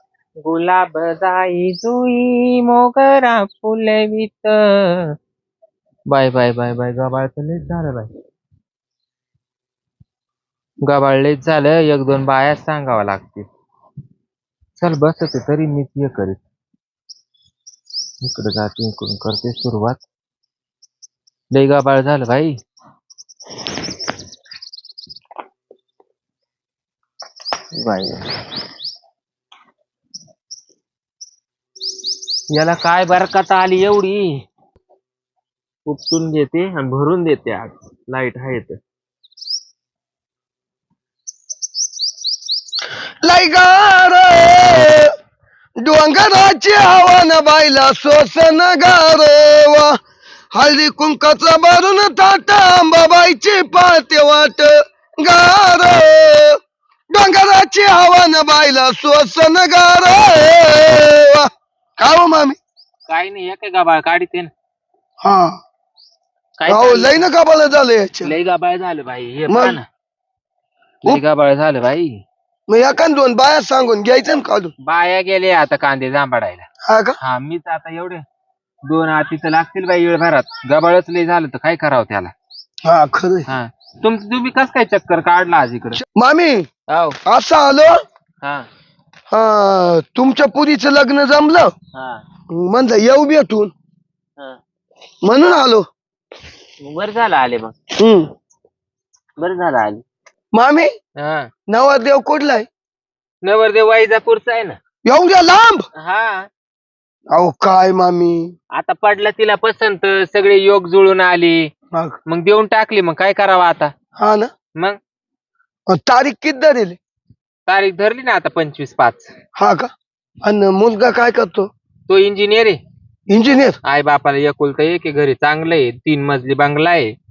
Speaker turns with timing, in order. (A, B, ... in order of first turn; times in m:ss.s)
0:00.4-0:05.1 A
0:06.1-0:08.1 A
0:10.9-0:13.5 A
0:14.8-0:16.4 A
0:18.2-0:20.0 A
0:21.5-0:22.6 A
0:27.8-0:28.3 A
0:32.5-0:34.4 A
0:35.9-0:38.8 A
0:43.2-0:45.1 B
0:45.8-0:50.0 B
0:50.5-0:56.6 B
0:57.1-1:02.6 B
1:03.1-1:04.5 A
1:05.2-1:05.6 B
1:06.6-1:07.3 A
1:06.7-1:08.3 B
1:08.2-1:09.8 A
1:09.5-1:09.8 B
1:11.0-1:12.2 A
1:12.7-1:14.7 B
1:14.8-1:16.6 A
1:16.8-1:17.2 B
1:17.2-1:18.2 A
1:18.9-1:22.3 A
1:22.8-1:23.5 B
1:23.5-1:26.0 A
1:26.0-1:26.7 B
1:26.9-1:27.2 A
1:27.2-1:28.0 B
1:28.4-1:28.7 A
1:29.3-1:31.7 B
1:32.0-1:32.2 A
1:32.5-1:33.7 B
1:35.2-1:35.8 B
1:36.8-1:37.7 A
1:38.0-1:38.3 B
1:39.4-1:40.0 A
1:40.5-1:40.9 B
1:41.2-1:41.5 A
1:41.7-1:42.7 B
1:43.4-1:44.8 A
1:45.0-1:45.9 B
1:46.0-1:46.5 A
1:47.3-1:48.5 B
1:48.8-1:51.7 A
1:52.3-1:53.9 A
1:54.2-1:54.5 B
1:55.9-1:57.0 B
1:57.7-1:59.3 A
1:59.6-1:59.9 B
2:00.4-2:01.7 B
2:02.1-2:02.8 A
2:03.3-2:03.8 B
2:03.8-2:07.1 A